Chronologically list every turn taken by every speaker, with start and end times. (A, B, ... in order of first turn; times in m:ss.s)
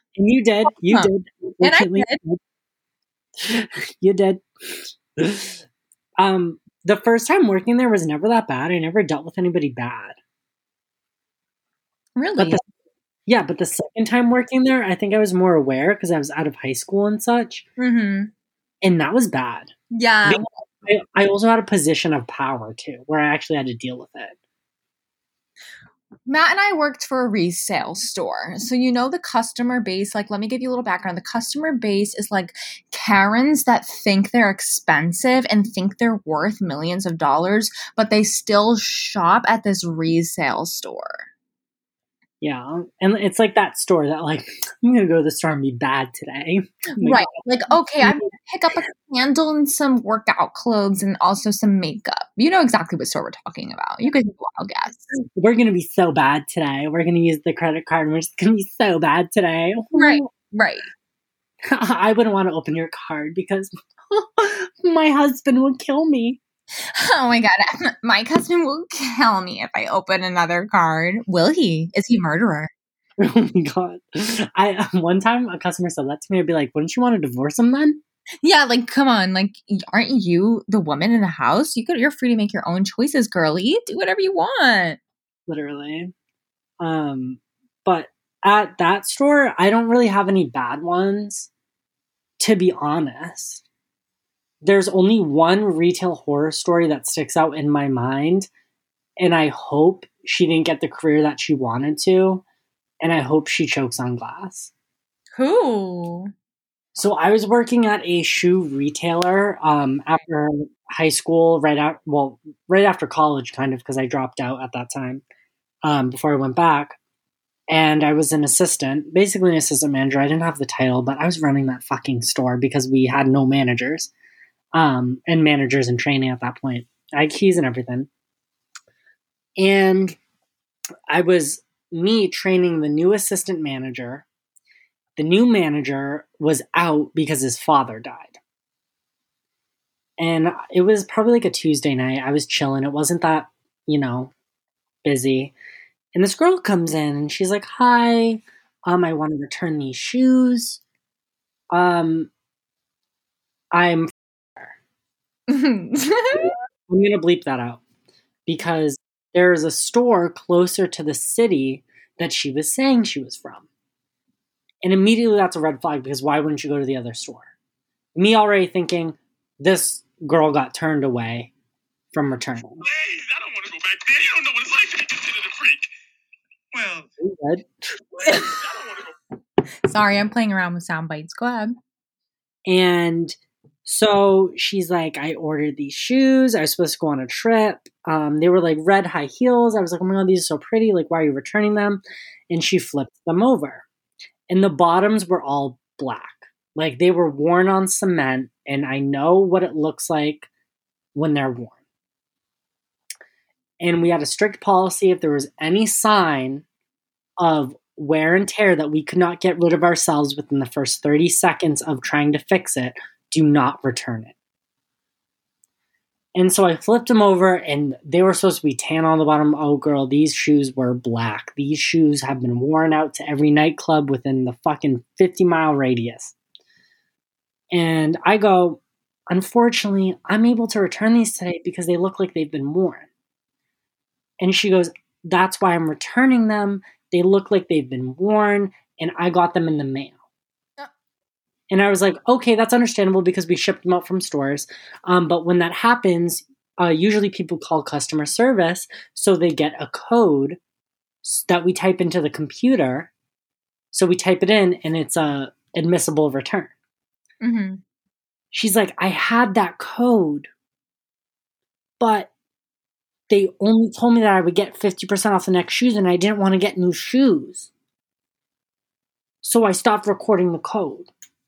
0:00.2-0:02.4 A
0:01.6-0:02.2 B
0:03.4-0:05.6 A
0:06.2-0:10.2 A
0:12.2-0:12.6 B
0:12.4-0:12.6 A
0:13.2-0:17.6 A
0:17.8-0:18.3 B
0:18.8-0:19.7 A
0:19.9-0:20.4 B
0:20.2-0:24.4 A
0:26.3-0:41.2 B
0:42.4-0:47.4 A
0:47.0-0:55.1 B
0:48.0-0:48.3 A
0:55.1-1:00.3 A
1:00.0-1:00.9 B
1:01.6-1:06.4 A
1:06.9-1:12.7 B
1:13.2-1:18.0 A
1:18.4-1:25.0 B
1:25.5-1:26.1 A
1:26.8-1:31.5 A
1:32.4-1:33.6 A
1:34.6-1:38.5 A
1:39.2-1:42.4 A
1:43.0-1:44.7 A
1:45.4-1:46.3 B
1:46.9-1:55.2 A
1:55.8-1:57.0 A
1:57.7-2:04.1 A
2:04.7-2:08.1 A
2:09.6-2:10.2 A
2:11.1-2:14.2 A
2:15.2-2:18.4 A
2:20.2-2:24.3 A
2:25.0-2:25.5 A
2:26.1-2:30.8 A
2:31.7-2:32.3 A
2:33.7-2:34.7 A
2:35.5-2:36.5 B
2:36.3-2:37.8 A
2:38.4-2:43.7 A
2:44.8-2:47.5 A
2:48.1-2:51.5 A
2:52.1-2:52.8 A
2:52.9-2:55.9 C
2:56.7-2:57.0 C
2:57.2-2:58.2 A
2:59.8-3:01.8 B
3:02.7-3:13.8 A
3:14.5-3:20.5 A
3:21.1-3:21.8 A
3:23.8-3:26.6 A
3:27.4-3:34.3 A
3:36.3-3:46.3 A
3:47.7-3:53.1 A
3:54.4-4:00.2 A
4:01.7-4:10.6 A
4:11.2-4:13.1 A
4:13.9-4:16.7 A
4:17.4-4:17.8 B
4:18.5-4:20.5 A
4:22.0-4:22.3 A
4:23.3-4:27.7 A
4:29.4-4:31.1 A